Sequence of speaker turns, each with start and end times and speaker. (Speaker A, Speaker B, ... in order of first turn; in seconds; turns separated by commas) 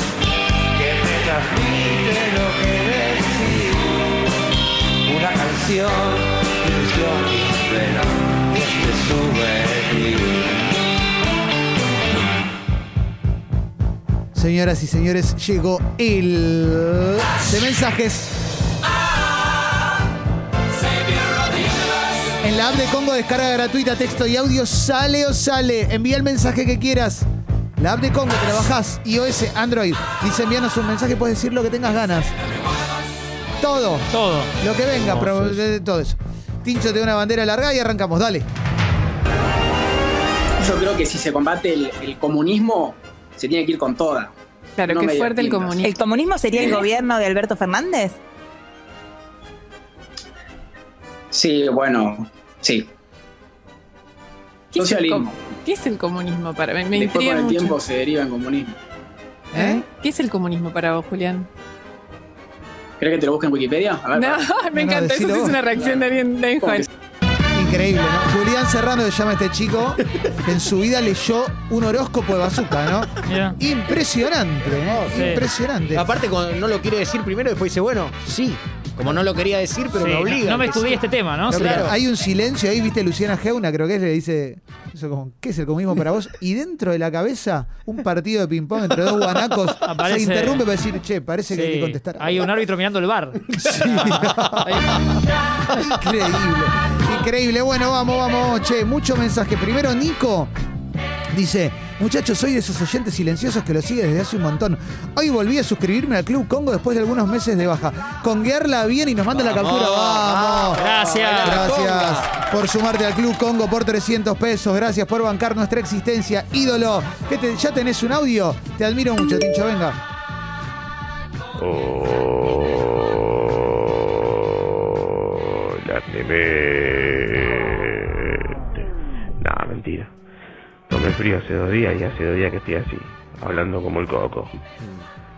Speaker A: 0.7-3.9, Speaker A: 5.0-10.6, Speaker B: 14.3-18.4, Speaker B: 22.4-27.3, Speaker B: 27.8-32.3, Speaker B: 33.6-38.5, Speaker C: 34.1-34.5, Speaker D: 35.0-35.6, Speaker E: 40.6-44.3, Speaker F: 44.8-46.0, Speaker E: 44.9-45.8, Speaker G: 45.8-48.2, Speaker E: 46.5-46.9, Speaker E: 51.3-52.9, Speaker F: 54.7-57.8, Speaker E: 54.7-55.4, Speaker E: 57.0-58.7, Speaker B: 59.5-59.8, Speaker F: 59.5-61.5, Speaker E: 63.0-64.5, Speaker F: 64.1-66.9, Speaker B: 64.7-65.6, Speaker E: 65.7-66.0, Speaker E: 66.6-66.8, Speaker B: 67.5-76.1, Speaker C: 73.2-73.6, Speaker D: 74.6-82.0, Speaker C: 75.1-75.4, Speaker C: 80.0-81.9, Speaker B: 81.5-92.5, Speaker C: 89.8-90.6, Speaker C: 91.5-95.0, Speaker B: 93.5-94.7, Speaker D: 94.0-94.6, Speaker B: 95.7-100.5, Speaker B: 101.3-110.8, Speaker D: 109.3-112.3, Speaker C: 110.8-111.7, Speaker B: 111.4-120.0, Speaker H: 121.6-128.6, Speaker H: 129.4-130.1, Speaker H: 130.9-134.5